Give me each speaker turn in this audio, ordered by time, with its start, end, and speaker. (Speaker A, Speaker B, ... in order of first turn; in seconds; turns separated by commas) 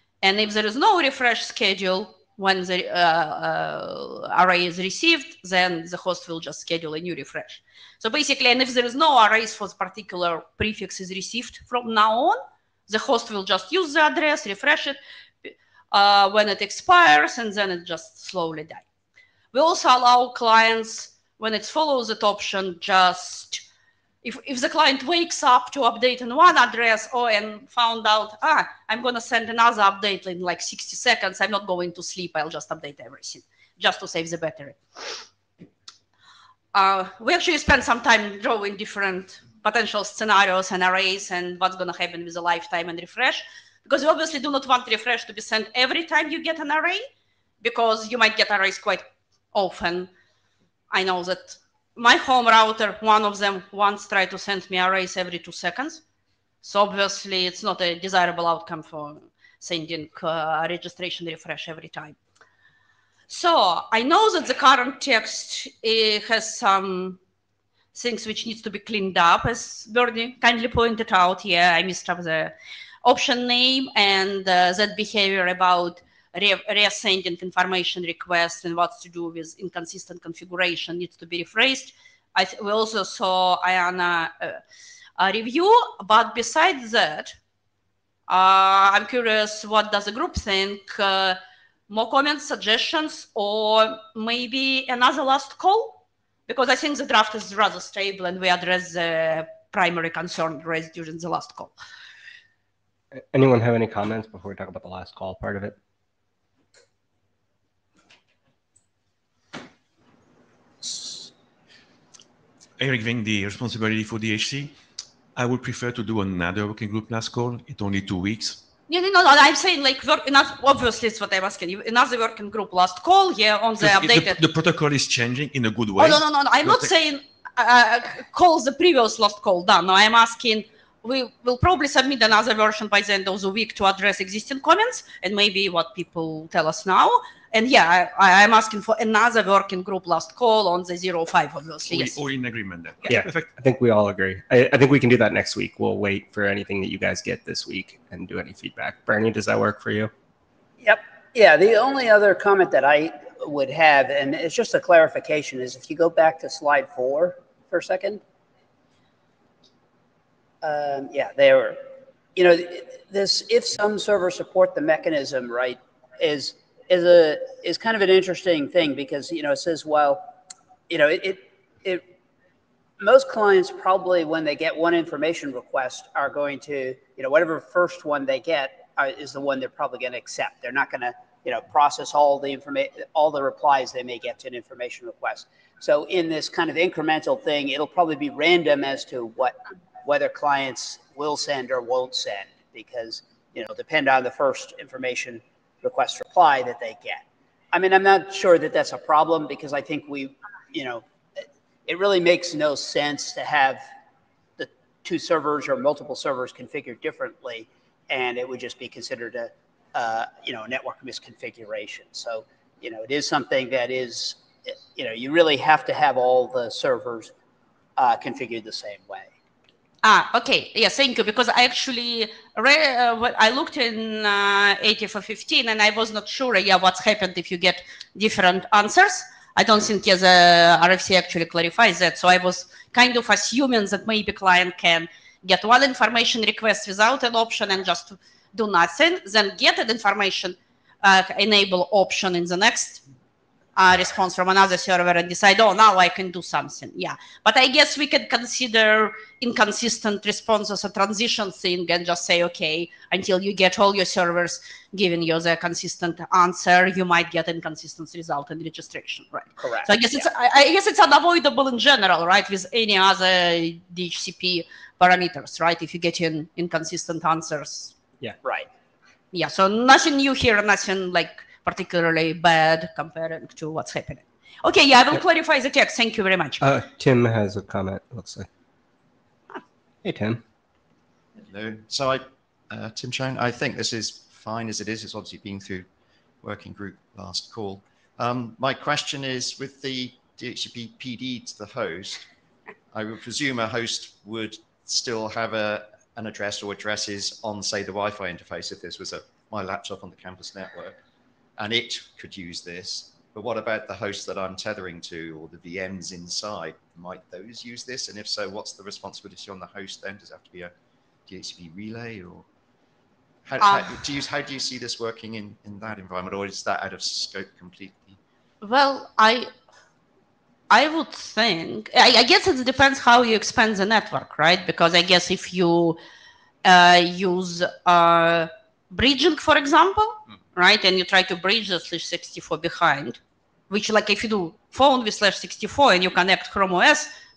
Speaker A: 0.2-18.8, Speaker A: 19.5-23.6, Speaker A: 24.2-35.1, Speaker A: 36.7-47.0, Speaker A: 47.6-50.1, Speaker A: 50.9-56.0, Speaker A: 56.6-62.2, Speaker A: 63.3-67.2, Speaker A: 67.9-84.6, Speaker A: 85.2-87.3, Speaker A: 88.3-101.7, Speaker B: 103.3-105.8, Speaker C: 112.8-114.8, Speaker C: 115.3-118.6, Speaker A: 118.9-124.4, Speaker C: 123.8-126.9, Speaker A: 126.0-142.2, Speaker C: 141.8-143.5, Speaker B: 143.1-150.1, Speaker D: 150.8-158.2, Speaker D: 160.6-161.8, Speaker D: 162.3-170.3, Speaker D: 170.9-172.0, Speaker D: 173.0-203.8, Speaker D: 204.6-217.3, Speaker D: 218.0-219.3, Speaker A: 220.0-243.0, Speaker A: 243.8-267.9, Speaker D: 259.6-260.3, Speaker D: 268.4-268.7, Speaker A: 269.3-276.6, Speaker B: 276.6-278.5, Speaker B: 280.0-280.4, Speaker E: 281.4-285.9, Speaker E: 286.4-292.2, Speaker E: 292.9-301.0, Speaker E: 301.6-310.7, Speaker E: 311.2-312.5, Speaker E: 313.4-318.2, Speaker A: 313.6-314.0, Speaker A: 318.6-319.5, Speaker A: 320.7-326.0, Speaker A: 326.6-337.1